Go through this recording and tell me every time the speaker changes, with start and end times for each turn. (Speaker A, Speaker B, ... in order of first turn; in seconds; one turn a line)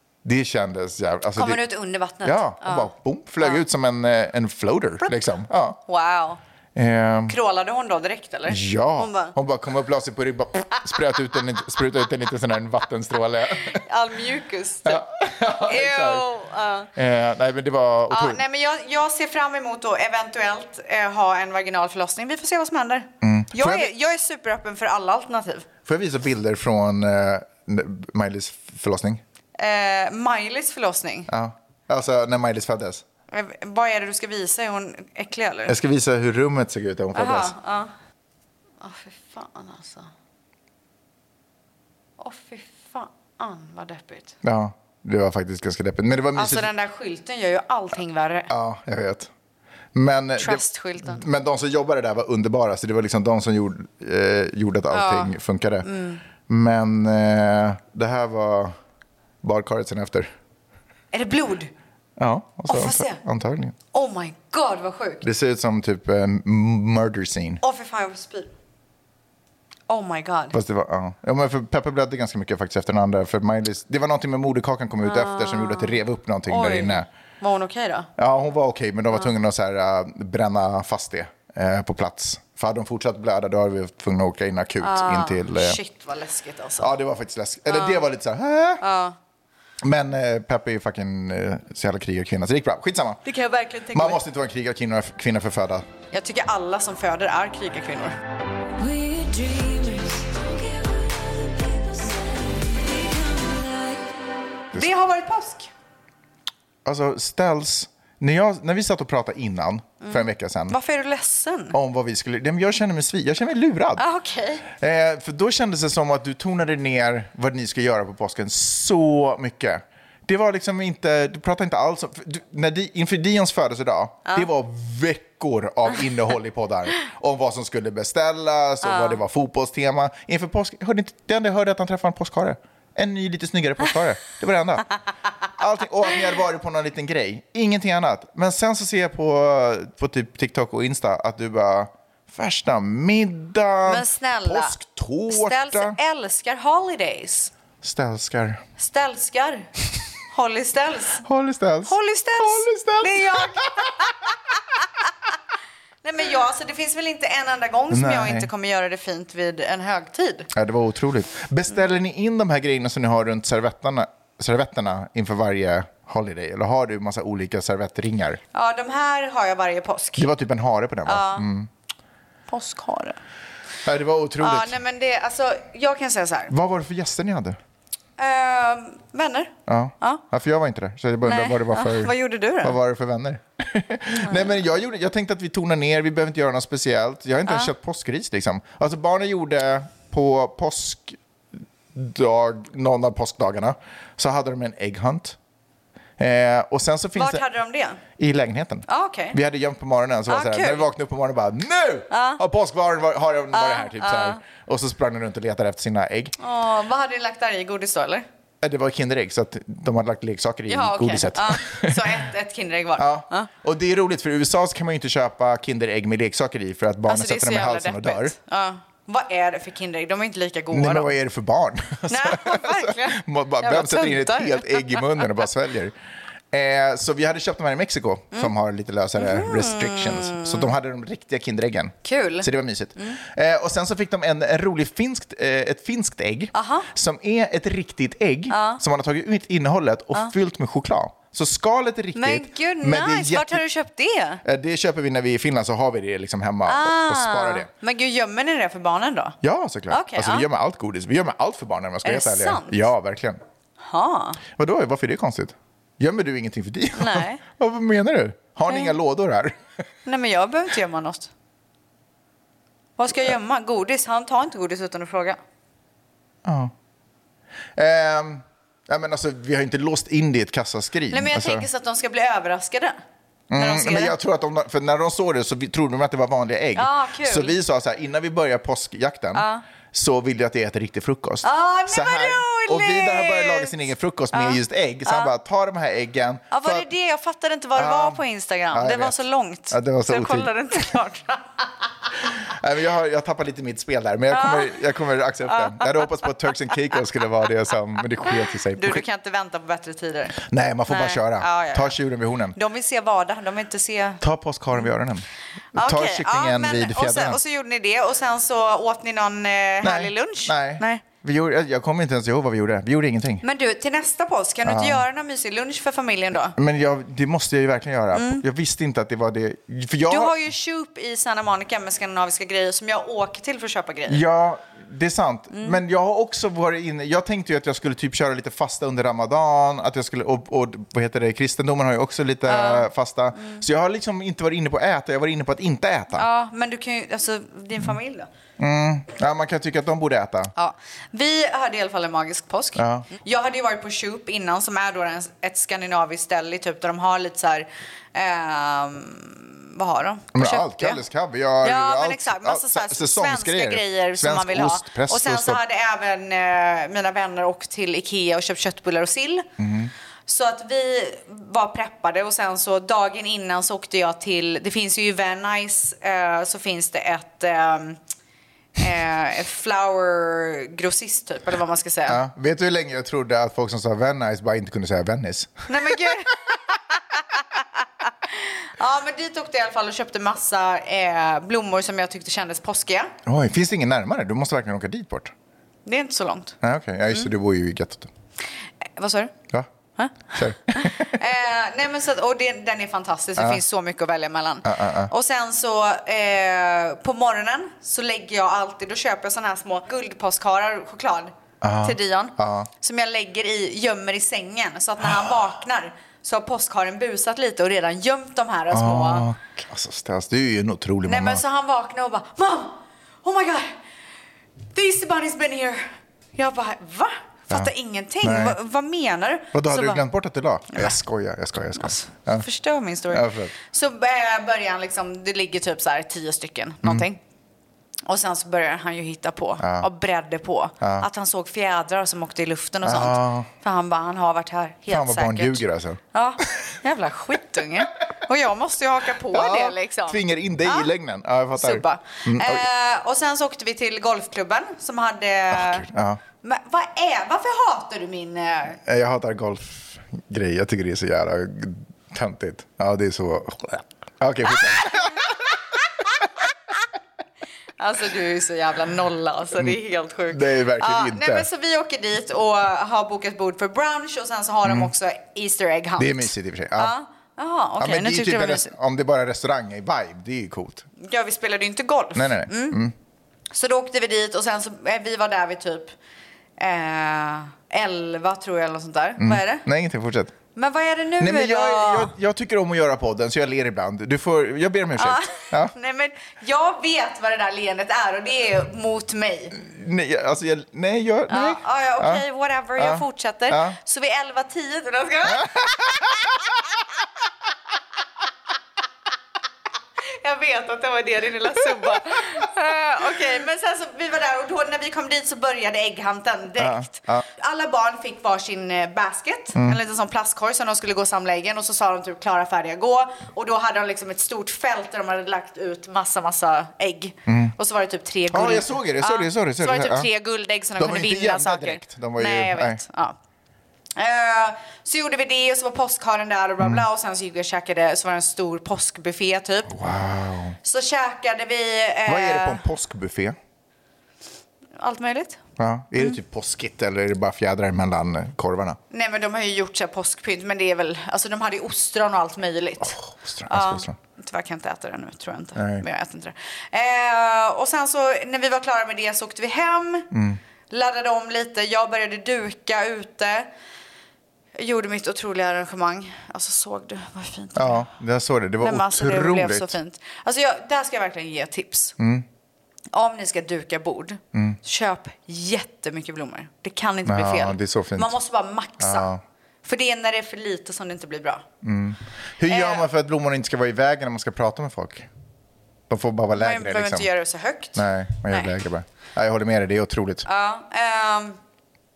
Speaker A: 0.2-1.6
Speaker B: 1.4-2.9
Speaker A: 2.2-5.8
Speaker B: 5.9-6.4
Speaker A: 6.8-7.4
Speaker B: 7.3-9.3
Speaker A: 8.5-13.8
Speaker B: 13.7-16.9
Speaker A: 14.8-16.3
Speaker A: 16.9-18.4
Speaker B: 18.1-25.7
Speaker A: 23.2-23.9
Speaker A: 25.9-29.2
Speaker B: 29.6-31.3
Speaker A: 31.3-33.0
Speaker B: 33.3-35.8
Speaker A: 35.7-37.5
Speaker B: 37.1-37.9
Speaker B: 38.8-40.1
Speaker B: 42.2-44.4
Speaker A: 44.4-46.7
Speaker B: 46.4-48.5
Speaker A: 48.5-49.3
Speaker A: 49.9-55.9
Speaker B: 50.4-51.2
Speaker B: 54.9-56.2
Speaker A: 56.5-58.8
Speaker A: 59.4-60.3
Speaker B: 61.1-61.7
Speaker A: 62.2-63.8
Speaker B: 62.7-63.2
Speaker B: 63.9-65.3
Speaker A: 65.2-67.6
Speaker B: 67.6-68.5
Speaker B: 69.9-70.6
Speaker A: 70.5-77.1
Speaker B: 75.0-78.1
Speaker A: 78.2-85.8
Speaker B: 84.8-87.0
Speaker A: 86.8-88.8
Speaker B: 87.7-88.1
Speaker B: 88.8-89.2
Speaker A: 89.8-93.2
Speaker B: 93.2-94.2
Speaker A: 93.9-95.9
Speaker B: 96.1-98.2
Speaker C: 98.8-104.0
Speaker B: 104.7-105.7
Speaker A: 106.8-110.8
Speaker B: 110.0-111.8
Speaker A: 111.7-114.0
Speaker B: 114.0-114.7
Speaker A: 114.7-134.9
Speaker B: 128.8-129.2
Speaker A: 135.6-146.0
Speaker B: 143.9-144.8
Speaker B: 145.3-147.5
Speaker A: 147.8-148.6
Speaker B: 148.8-149.7
Speaker B: 150.3-151.2
Speaker A: 151.2-153.9
Speaker B: 151.9-154.3
Speaker B: 156.0-160.5
Speaker A: 157.9-158.5
Speaker A: 160.5-168.4
Speaker B: 168.5-170.3
Speaker A: 170.2-171.7
Speaker B: 171.1-171.5
Speaker B: 172.5-173.2
Speaker A: 173.8-174.8
Speaker B: 174.4-176.5
Speaker A: 176.5-177.6
Speaker B: 178.2-180.2
Speaker A: 179.7-191.2
Speaker B: 181.2-182.8
Speaker B: 184.1-184.5
Speaker B: 187.5-187.7
Speaker A: 191.9-195.4
Speaker A: 196.2-197.4
Speaker B: 197.2-198.0
Speaker A: 198.2-206.3
Speaker B: 198.9-199.4
Speaker B: 200.3-200.9
Speaker B: 202.1-202.4
Speaker B: 203.5-204.4
Speaker B: 206.4-208.2
Speaker A: 208.6-212.2
Speaker B: 210.7-213.5
Speaker A: 213.0-218.3
Speaker B: 217.1-221.1
Speaker A: 220.7-225.9
Speaker B: 222.1-225.1
Speaker A: 226.5-243.6
Speaker B: 229.2-230.7
Speaker B: 232.0-233.2
Speaker B: 236.5-236.9
Speaker B: 238.5-238.8
Speaker B: 242.2-244.4
Speaker A: 244.4-247.7
Speaker B: 246.7-249.4
Speaker A: 249.4-253.4
Speaker B: 249.9-250.5
Speaker B: 252.1-252.9
Speaker B: 253.8-254.4
Speaker A: 254.6-259.6
Speaker B: 256.9-257.4
Speaker B: 258.7-258.9
Speaker B: 260.1-261.3
Speaker B: 263.0-265.4
Speaker A: 266.4-266.7
Speaker A: 267.8-271.7
Speaker B: 271.1-273.0
Speaker A: 273.5-286.9
Speaker B: 273.6-274.1
Speaker B: 276.8-277.6
Speaker B: 279.4-279.6
Speaker B: 281.4-283.8
Speaker B: 284.3-285.3
Speaker B: 286.5-291.6
Speaker A: 287.8-288.2
Speaker A: 288.7-291.0
Speaker A: 292.4-299.0
Speaker B: 294.3-294.7
Speaker B: 295.5-296.3
Speaker B: 298.8-302.0
Speaker A: 300.4-302.6
Speaker B: 302.6-304.2
Speaker A: 304.2-307.4
Speaker B: 305.8-311.0
Speaker A: 309.8-313.4
Speaker B: 313.4-316.6
Speaker A: 314.6-315.0
Speaker A: 316.5-320.4
Speaker B: 318.1-318.4
Speaker B: 320.1-324.2
Speaker A: 324.1-336.3
Speaker B: 325.5-325.8
Speaker B: 332.5-333.6
Speaker B: 336.1-338.3
Speaker A: 338.6-340.5
Speaker B: 340.6-351.0
Speaker A: 342.8-343.1
Speaker A: 350.3-355.6
Speaker B: 351.6-359.5
Speaker A: 359.6-359.9
Speaker B: 360.3-368.0
Speaker B: 368.8-372.2
Speaker A: 372.1-376.1
Speaker B: 375.7-377.4
Speaker B: 378.3-383.1
Speaker A: 383.3-385.3
Speaker B: 385.9-386.6
Speaker A: 386.6-388.1
Speaker B: 389.0-389.3
Speaker B: 390.0-409.3
Speaker A: 390.3-391.2
Speaker A: 394.6-395.1
Speaker A: 401.6-402.7
Speaker A: 405.0-405.3
Speaker A: 408.7-411.4
Speaker B: 411.1-413.8
Speaker B: 414.7-415.8
Speaker B: 416.4-420.1
Speaker A: 417.5-418.6
Speaker A: 419.5-422.4
Speaker B: 420.7-420.9
Speaker B: 421.8-427.2
Speaker A: 423.1-423.5
Speaker B: 428.1-440.9
Speaker A: 429.6-429.9
Speaker A: 430.8-431.1
Speaker A: 432.8-433.5
Speaker A: 434.9-436.8
Speaker A: 439.3-442.7
Speaker B: 441.6-445.9
Speaker A: 445.5-446.2
Speaker B: 446.4-448.8
Speaker A: 448.8-455.4
Speaker B: 457.8-468.7
Speaker A: 460.3-461.5
Speaker A: 464.6-464.9
Speaker A: 466.0-466.9
Speaker A: 467.8-470.9
Speaker B: 471.0-472.8
Speaker A: 472.1-472.9
Speaker B: 473.5-475.9
Speaker B: 476.6-479.6
Speaker A: 479.2-480.4
Speaker B: 480.6-482.1
Speaker A: 481.2-485.7
Speaker B: 485.0-489.6
Speaker A: 489.6-492.2
Speaker B: 491.3-496.3
Speaker A: 492.8-493.8
Speaker A: 495.3-496.0
Speaker B: 500.1-523.2
Speaker A: 506.6-507.2
Speaker A: 517.3-517.5
Speaker A: 518.3-520.1
Speaker A: 520.8-522.8
Speaker B: 524.0-529.8
Speaker A: 526.6-526.9
Speaker A: 529.7-530.6
Speaker B: 530.6-532.6
Speaker A: 532.1-533.4
Speaker B: 534.8-535.4
Speaker A: 535.6-538.8
Speaker B: 538.9-550.1
Speaker A: 542.8-544.0
Speaker A: 545.6-545.9
Speaker A: 550.1-550.4
Speaker B: 550.7-553.5
Speaker B: 554.6-557.9
Speaker A: 557.6-559.7
Speaker B: 558.6-562.0
Speaker A: 562.0-562.3
Speaker B: 562.9-569.1
Speaker A: 564.3-564.6
Speaker A: 567.1-568.1
Speaker A: 568.8-569.2
Speaker B: 569.6-571.5
Speaker A: 571.6-575.1
Speaker B: 572.5-572.9
Speaker A: 575.9-577.1
Speaker B: 576.4-578.5
Speaker A: 577.8-580.3
Speaker B: 580.3-581.4